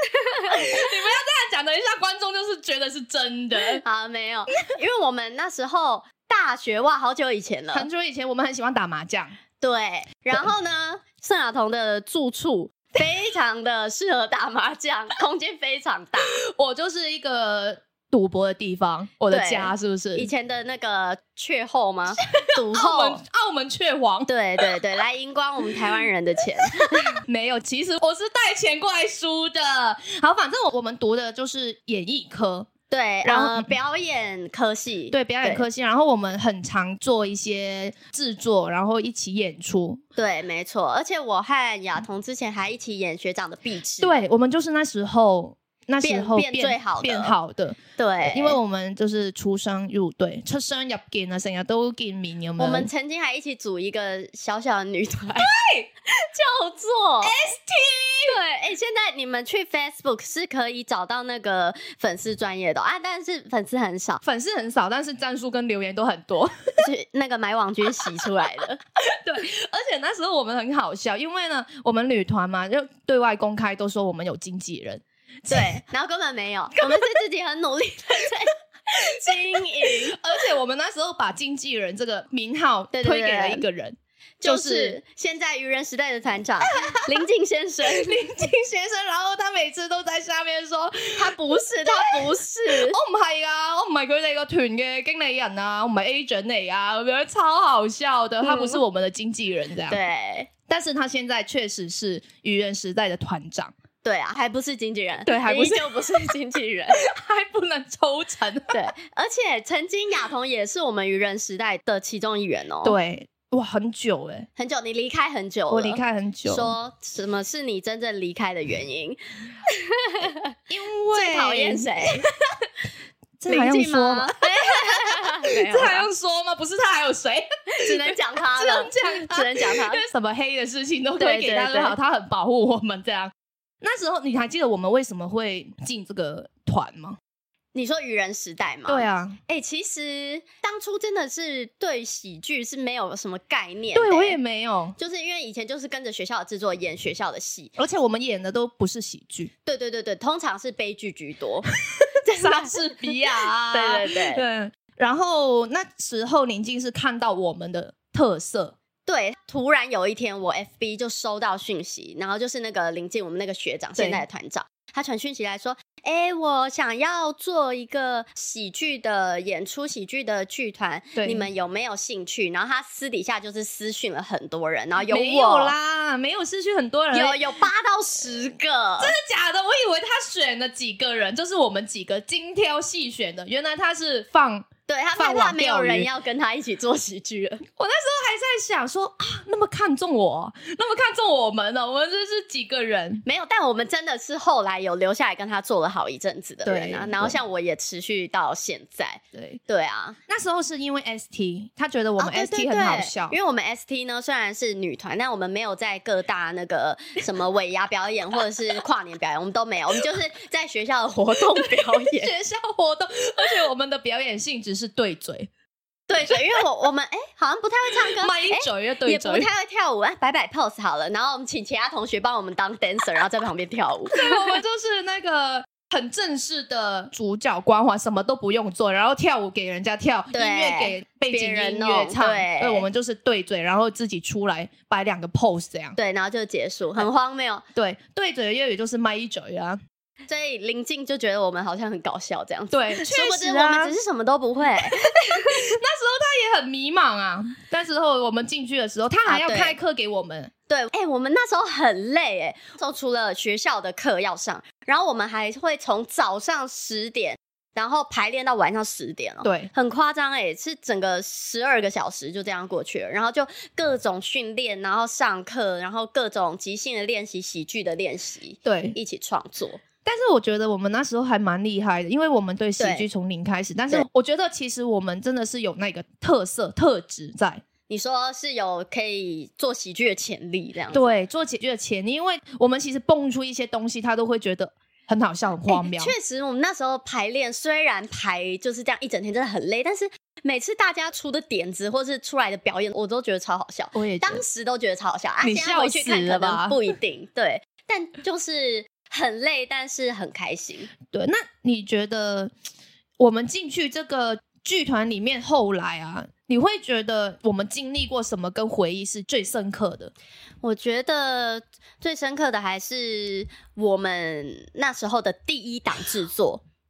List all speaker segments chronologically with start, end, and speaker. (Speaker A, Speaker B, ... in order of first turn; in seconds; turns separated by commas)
Speaker A: 0.2-0.7, Speaker B: 0.5-3.8, Speaker A: 3.8-7.9, Speaker B: 7.7-9.4, Speaker A: 9.6-16.4, Speaker B: 16.4-20.3, Speaker A: 19.3-23.2, Speaker B: 22.2-24.8, Speaker A: 24.3-27.2, Speaker B: 26.7-32.7, Speaker A: 32.9-35.7, Speaker B: 33.2-33.7, Speaker B: 35.1-40.0, Speaker A: 40.2-44.1, Speaker B: 44.0-52.9, Speaker A: 46.0-47.3, Speaker A: 48.0-48.6, Speaker A: 52.6-55.5, Speaker B: 55.4-55.9, Speaker A: 56.2-57.4, Speaker B: 57.2-58.4, Speaker A: 58.3-64.2, Speaker B: 64.2-66.9, Speaker A: 66.8-68.8, Speaker B: 69.0-75.8, Speaker A: 75.5-80.2, Speaker B: 76.8-77.0, Speaker B: 79.0-85.0, Speaker A: 82.9-83.6, Speaker A: 84.4-88.3, Speaker B: 86.9-87.2, Speaker B: 87.8-100.0, Speaker A: 91.2-93.0, Speaker A: 98.4-98.8, Speaker A: 99.9-100.5, Speaker B: 100.7-103.7, Speaker A: 104.0-107.0, Speaker B: 105.3-106.4, Speaker B: 106.9-108.7, Speaker A: 108.7-113.0, Speaker B: 112.8-114.5, Speaker A: 114.6-120.5, Speaker B: 115.7-116.8, Speaker B: 120.7-122.3, Speaker A: 121.1-122.3, Speaker B: 123.4-137.2, Speaker A: 123.5-126.1, Speaker A: 127.8-130.0, Speaker A: 131.2-132.0, Speaker A: 137.7-144.4, Speaker B: 138.9-139.4, Speaker B: 143.9-145.0, Speaker A: 145.0-147.7, Speaker B: 147.8-149.5, Speaker A: 149.7-151.7, Speaker B: 152.0-158.8, Speaker A: 152.2-152.8, Speaker A: 153.7-154.4, Speaker A: 159.1-175.7, Speaker B: 164.0-164.2, Speaker B: 171.2-171.5, Speaker B: 175.0-177.5, Speaker A: 177.1-179.2, Speaker B: 179.0-186.1, Speaker A: 184.9-187.6, Speaker B: 187.8-193.2, Speaker A: 193.2-200.2, Speaker B: 196.7-197.3, Speaker B: 199.3-199.6, Speaker B: 200.3-203.4, Speaker A: 202.2-212.3, Speaker B: 211.6-215.5, Speaker A: 216.1-224.6, Speaker B: 216.3-216.6, Speaker B: 218.0-219.5, Speaker B: 224.2-236.0, Speaker A: 230.3-232.9, Speaker A: 236.0-237.6, Speaker B: 237.8-239.8, Speaker A: 240.3-245.7, Speaker B: 242.7-243.9, Speaker B: 245.0-250.5, Speaker A: 249.3-249.8, Speaker A: 250.7-269.8, Speaker B: 259.4-259.7, Speaker B: 268.6-269.0, Speaker B: 270.1-277.6, Speaker A: 272.8-273.1, Speaker A: 277.9-281.1, Speaker B: 280.9-286.1, Speaker A: 285.7-300.9, Speaker B: 293.9-294.4, Speaker B: 295.4-296.8, Speaker B: 301.1-302.5, Speaker B: 303.2-310.1, Speaker A: 310.6-316.6